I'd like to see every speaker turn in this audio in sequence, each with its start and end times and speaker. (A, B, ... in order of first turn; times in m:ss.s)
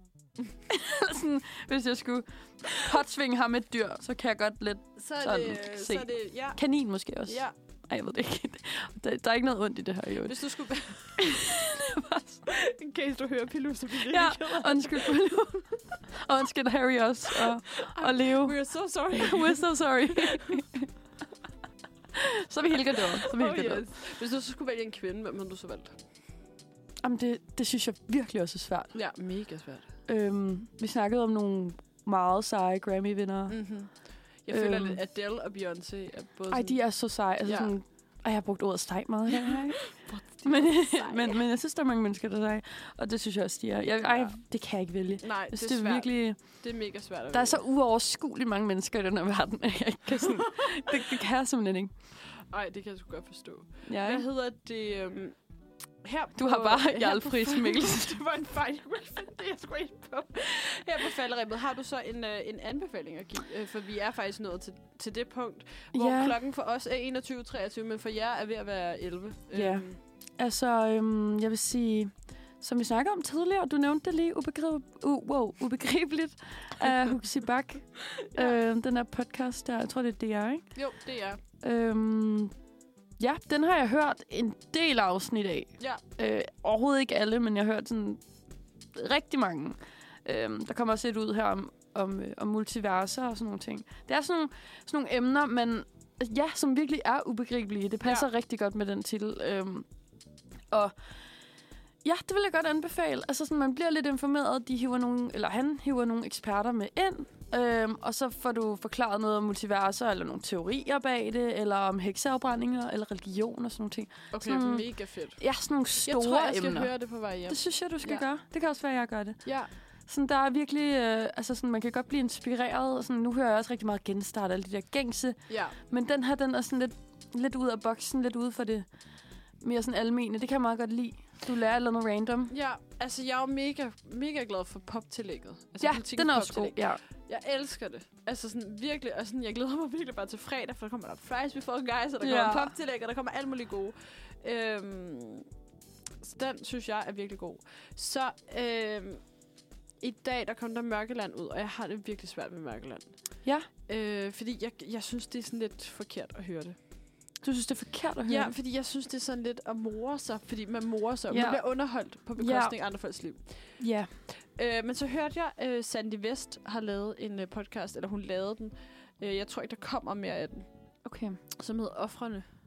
0:00.7-0:10.4 A
0:05.0-0:06.6 B
0:07.2-0:07.5 B
0:10.2-0:11.4 B
0:11.0-0:12.4 A
0:12.5-0:15.8 B
0:14.0-0:20.9 A
0:17.7-0:20.6 B
0:22.2-0:23.9 A
0:23.2-0:26.0 B
0:27.0-0:28.9 A
0:28.9-0:29.9 B
0:30.0-0:34.0 A
0:33.5-0:37.7 B
0:34.5-0:35.0 A
0:36.5-0:46.7 A
0:39.4-0:41.4 B
0:44.0-0:44.4 B
0:45.2-0:47.6 B
0:47.3-0:51.9 A
0:52.5-0:55.4 B
0:53.9-0:54.2 A
0:56.0-1:10.0 B
0:56.4-0:58.2 A
1:05.9-1:06.4 A
1:09.5-1:20.8 A
1:18.1-1:18.6 B
1:20.7-1:21.4 B
1:21.6-1:22.5 A
1:23.2-1:28.2 A
1:28.9-1:39.9 A
1:38.0-1:38.3 B
1:40.7-1:40.9 A
1:42.0-2:08.9 A
1:54.3-1:55.5 B
1:56.0-1:58.2 B
1:59.4-1:59.7 B
2:05.5-2:05.8 B
2:09.6-2:12.5 A
2:12.5-2:25.4 B
2:15.8-2:17.0 A
2:22.2-2:22.7 A
2:26.2-2:29.3 B
2:30.0-2:36.8 B
2:37.4-2:38.5 A
2:38.2-2:50.9 B
2:41.3-2:42.8 A
2:43.8-2:44.1 A
2:51.0-2:51.4 A
2:51.5-2:52.5 B